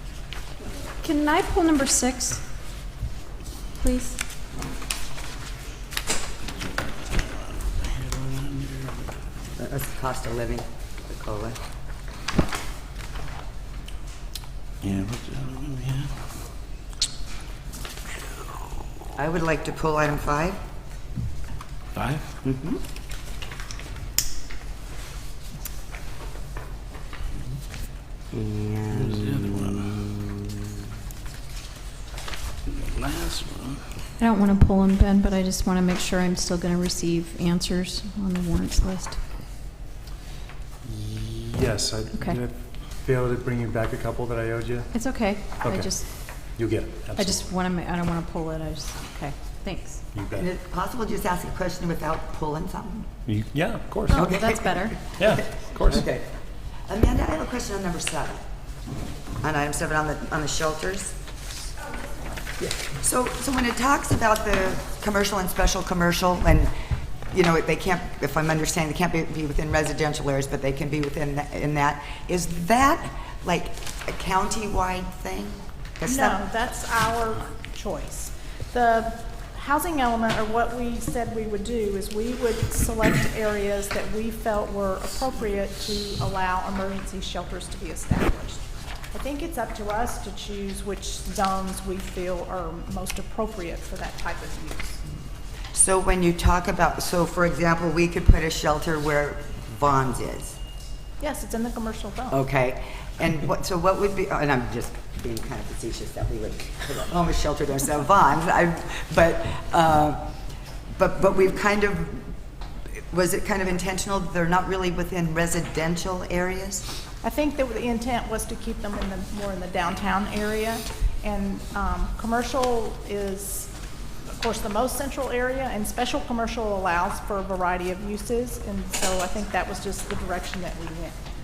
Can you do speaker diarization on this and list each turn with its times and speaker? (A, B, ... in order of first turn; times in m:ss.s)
0:01.0-0:02.4 A
0:03.8-0:04.2 A
0:08.1-0:08.9 B
0:09.6-0:11.6 C
0:14.9-0:16.1 B
0:19.2-0:20.6 C
0:22.0-0:22.2 B
0:22.4-0:22.8 C
0:29.0-0:30.1 B
0:32.8-0:33.8 B
0:34.2-0:39.2 A
0:40.8-0:45.0 D
0:44.9-0:46.0 A
0:45.6-0:46.0 D
0:46.5-0:47.4 D
0:47.2-0:50.0 A
0:50.1-0:50.5 D
0:50.4-0:53.1 C
0:53.3-0:54.2 D
0:54.1-0:55.0 A
0:54.2-0:56.3 C
0:55.2-0:56.1 D
0:56.9-0:58.4 C
0:59.4-1:01.1 C
1:02.9-1:06.7 C
1:07.3-1:16.4 C
1:16.0-1:28.6 E
1:29.1-1:35.0 E
1:35.7-1:40.6 C
1:41.2-1:42.4 E
1:42.3-1:50.2 C
1:51.0-1:52.3 C
1:52.9-1:56.8 C
1:57.2-2:03.7 E
2:04.3-2:11.2 E